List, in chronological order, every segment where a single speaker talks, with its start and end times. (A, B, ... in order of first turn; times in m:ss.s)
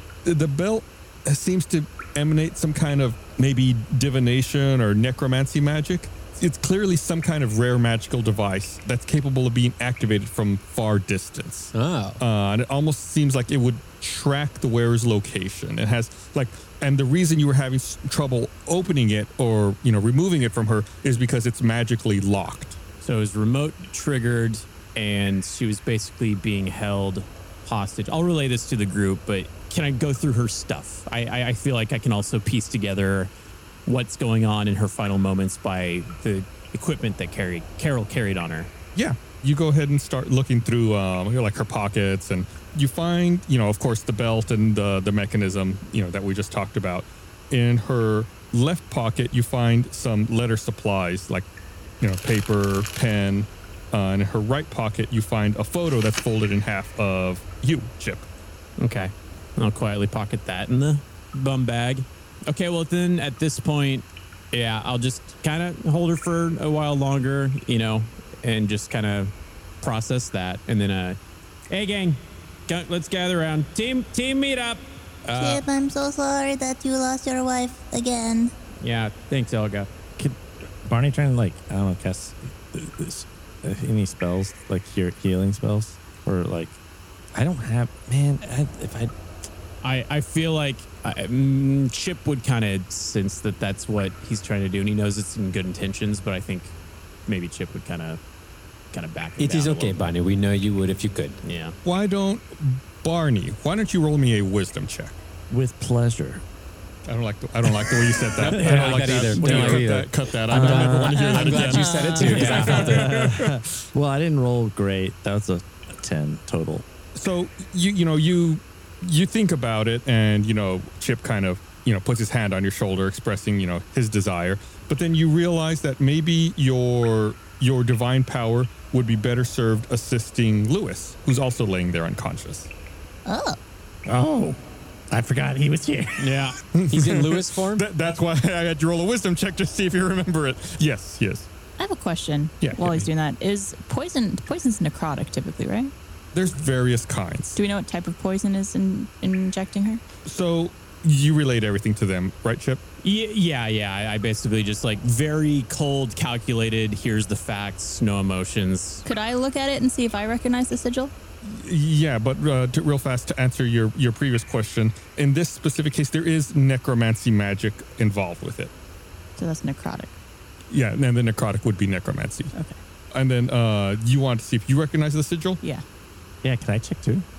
0:00.2-0:22.8 A
0:11.7-0:12.2 B
0:23.0-0:33.3 C
0:33.8-0:38.7 C
0:39.0-0:51.4 A
0:52.0-0:58.3 A
0:58.8-1:11.2 C
1:11.7-1:15.6 C
1:15.3-1:18.5 D
1:18.8-1:19.9 C
1:20.2-1:26.8 E
1:27.3-1:29.1 E
1:29.8-1:36.7 C
1:37.3-1:38.2 C
1:38.9-1:40.1 C
1:39.4-1:41.4 B
1:41.4-1:41.8 C
1:41.8-1:45.2 A
1:45.5-1:46.4 E
1:47.0-1:53.6 A
1:48.4-1:53.3 B
1:48.6-1:49.7 C
1:48.6-1:48.8 E
1:49.4-1:51.3 E
1:51.4-1:52.6 F
1:52.2-1:52.8 C
1:52.4-1:56.8 E
1:57.1-2:12.7 A
2:13.3-2:13.6 D
2:14.0-2:14.6 E
2:15.1-2:16.4 E
2:16.2-2:17.8 B
2:16.3-2:16.5 C
2:16.7-2:21.5 A
2:21.8-2:25.9 F
2:22.6-2:23.1 A
2:26.3-2:27.6 A
2:27.5-2:30.0 F
2:30.2-2:32.8 A
2:33.0-2:39.0 C
2:39.0-2:41.1 F
2:41.4-2:48.7 A
2:49.4-2:50.1 F
2:50.7-2:52.5 A
2:53.1-2:55.6 A
2:56.4-2:57.2 E